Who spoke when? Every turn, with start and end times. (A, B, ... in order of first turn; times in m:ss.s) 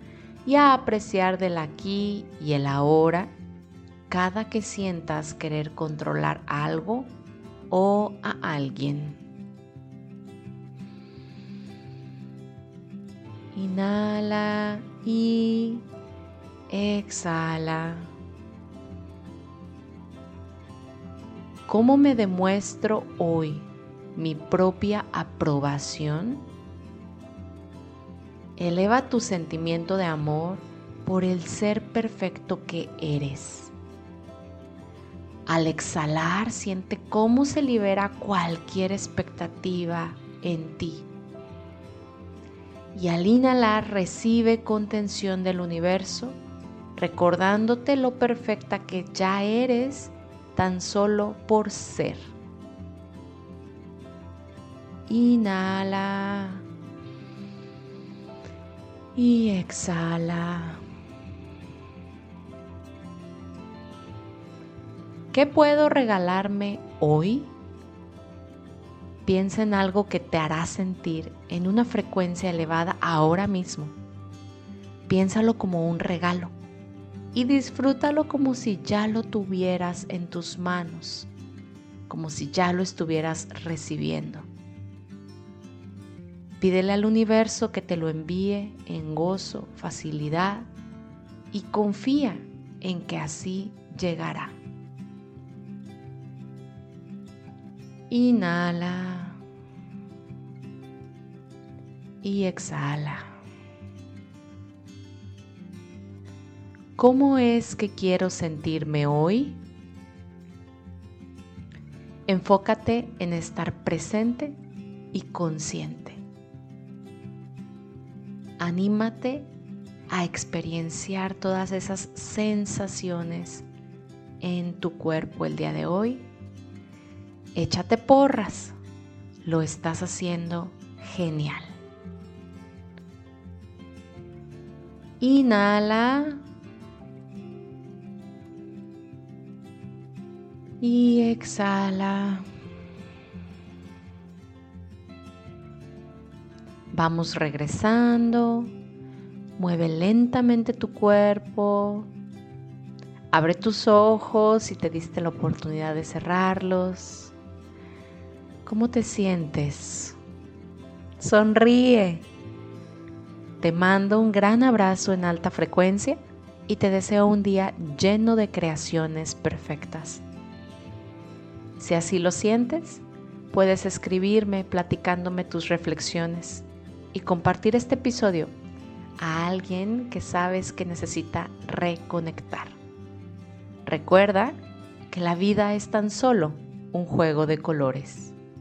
0:00.4-0:03.3 A
0:04.1-0:07.1 A
0:07.7-0:09.2 A
0:13.5-0:15.8 A
0:16.7-0:18.1 A
0:21.7-0:26.5 A
0:28.6-0:33.7 A
0:35.5-0:41.1 A
0:42.9-0:46.4 A
0:47.0-0:52.3 A
0:55.1-0:56.6 A
0:59.2-1:00.8 A
1:05.3-1:07.5 A
1:09.2-1:14.0 A
1:15.1-1:16.5 A
1:17.3-1:21.3 A
1:22.1-1:24.5 A
1:26.6-1:30.7 A
1:31.5-1:34.6 A
1:38.1-1:39.4 A
1:42.2-1:43.3 A
1:47.0-1:49.6 A
1:52.3-1:54.6 A
1:55.1-1:56.2 A
1:58.6-1:59.5 A
2:00.1-2:03.6 A
2:04.4-2:06.3 A
2:07.5-2:08.8 A
2:09.4-2:11.7 A
2:15.2-2:16.4 A
2:20.8-2:22.4 A
2:26.9-2:28.7 A
2:29.6-2:32.1 A
2:33.3-2:37.3 A
2:38.6-2:40.2 A
2:41.2-2:42.2 A
2:43.6-2:50.2 A
2:51.8-2:58.5 A
2:59.2-3:02.8 A
3:03.8-3:04.6 A
3:05.1-3:08.3 A